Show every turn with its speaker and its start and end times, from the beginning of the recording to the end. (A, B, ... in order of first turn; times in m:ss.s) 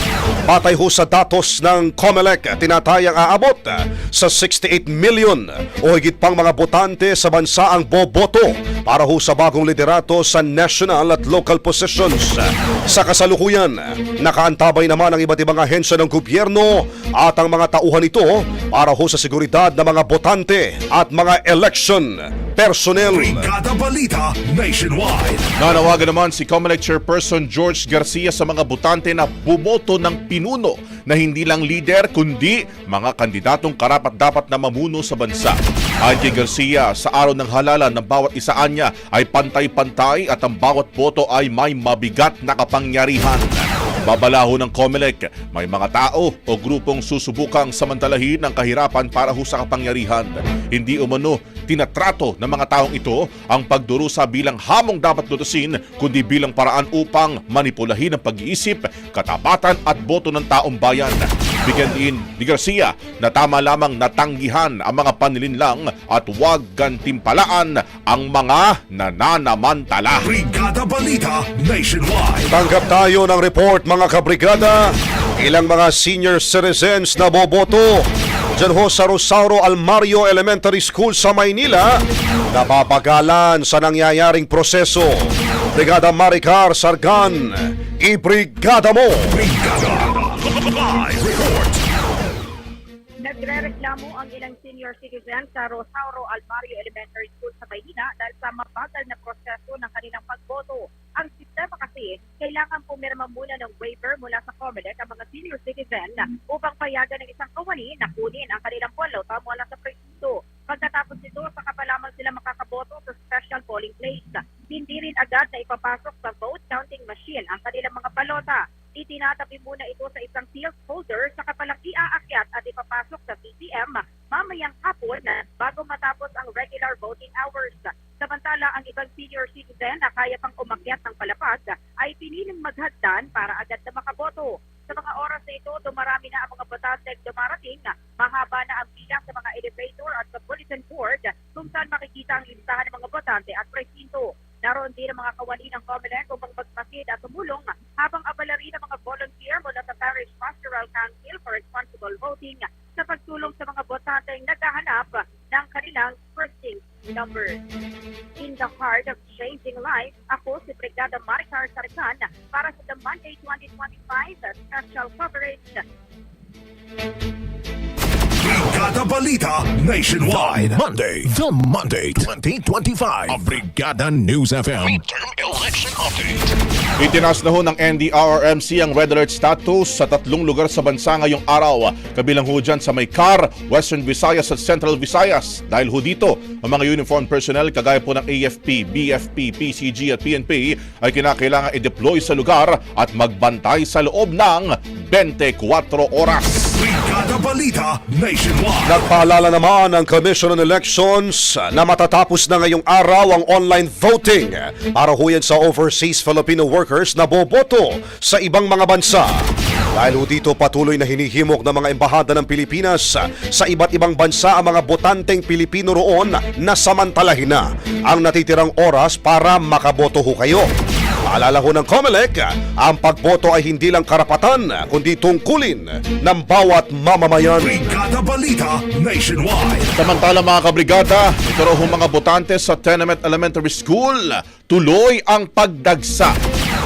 0:00.5-0:23.5 A
0:23.1-0:25.5 B
0:25.6-1:10.3 C
1:10.2-1:12.5 B
1:12.5-1:29.4 A
1:29.3-1:31.8 B
1:33.2-2:37.6 D
2:38.4-2:45.8 D
2:48.4-2:50.8 B
2:50.3-2:56.3 E
2:57.0-3:16.7 C
3:16.7-3:19.1 B
3:18.9-3:29.4 A
3:30.0-3:40.7 A
3:41.3-3:47.7 A
3:47.6-3:50.0 B
3:50.0-3:56.3 C